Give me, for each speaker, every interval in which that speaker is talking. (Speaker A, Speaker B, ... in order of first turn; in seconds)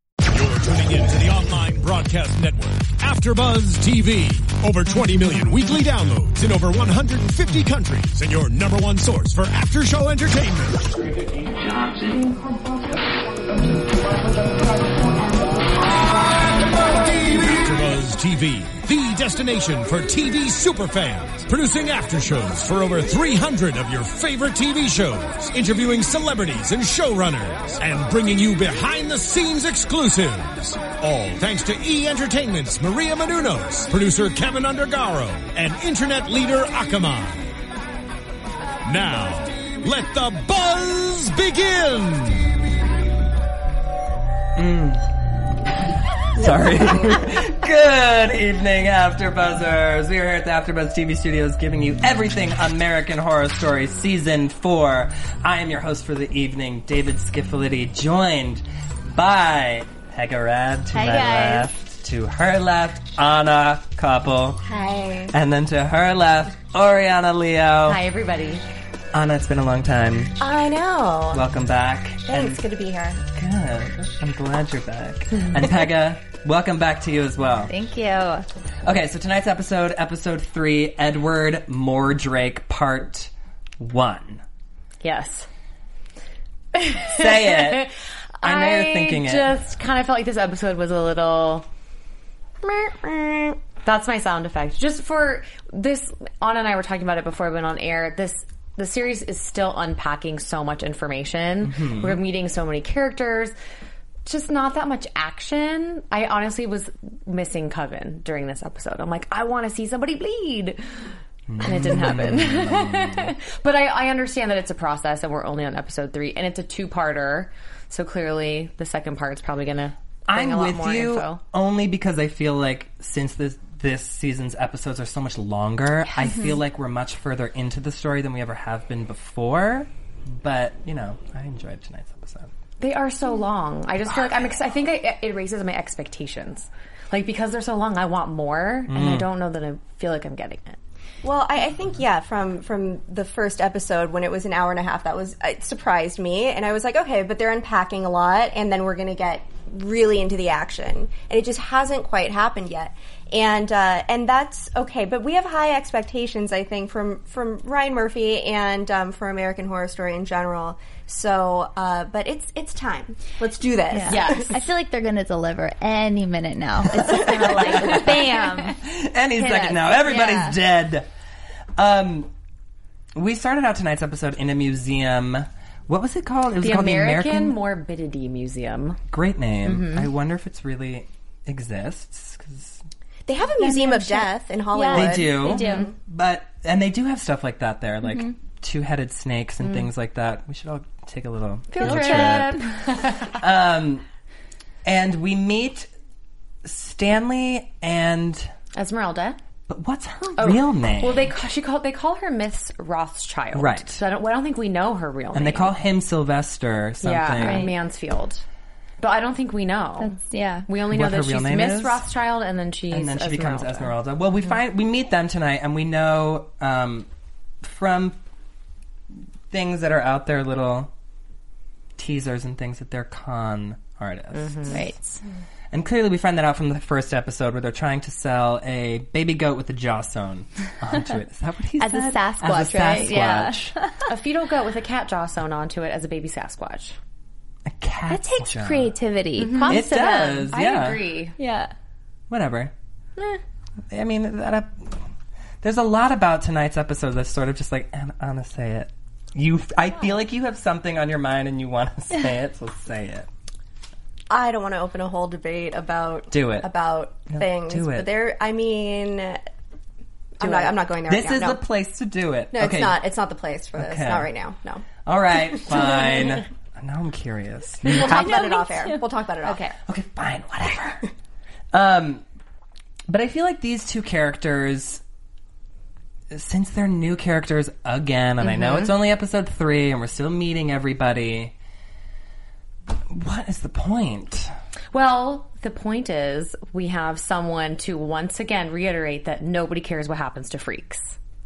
Speaker A: 0.3-11.2, 16.1-37.6, 38.8-42.6
Speaker B: 44.6-45.1, 46.3-64.6, 65.3-68.0, 69.1-70.4, 71.3-72.6, 73.3-77.7, 78.8-84.4, 87.0-89.5, 101.6-102.2, 111.5-113.3, 120.3-132.5, 138.9-139.3, 167.0-171.1, 171.8-172.3, 173.2-177.6, 179.1-182.8, 184.9-194.1, 194.8-195.9, 196.6-198.5, 199.7-201.3, 203.5-204.0, 205.3-207.7, 210.9-212.1, 212.9-217.1, 217.6-218.2, 219.5-220.9, 222.0-224.8, 225.7-233.8, 237.7-238.9, 239.6-241.0, 242.3-242.7, 243.9-245.0, 245.6-253.3, 256.3-256.7, 257.3-258.1, 261.1-263.0, 263.8-264.3, 265.0-268.6, 269.9-271.1, 271.7-272.2, 273.1-275.0, 276.3-281.6, 283.1-284.5
Speaker C: 60.9-61.7, 77.7-78.5, 126.3-126.5, 163.9-168.8, 169.4-170.6, 183.6-185.9, 188.1-188.3, 191.8-192.6, 207.4-207.8, 210.0-210.7, 224.7-225.2, 231.8-234.1, 238.1-240.6, 241.4-241.7, 268.0-269.6
Speaker D: 64.6-65.3, 70.4-71.4, 72.3-73.2, 141.2-164.5, 167.1-168.1, 183.3-185.9, 254.3-259.4, 260.4-261.6, 262.5-264.9, 265.9-266.2, 267.8-269.8
Speaker E: 67.9-68.6, 85.0-85.5, 86.8-91.7, 92.6-103.5, 104.3-110.8, 111.6-121.4, 132.8-140.8, 164.1-164.6, 176.6-179.0, 179.6-180.1, 191.7-193.3, 198.7-199.4, 200.3-205.8, 207.0-208.4, 209.0-213.9, 224.3-224.8, 234.1-237.0, 239.4-241.4, 260.4-260.7, 278.4-278.9, 284.9-291.2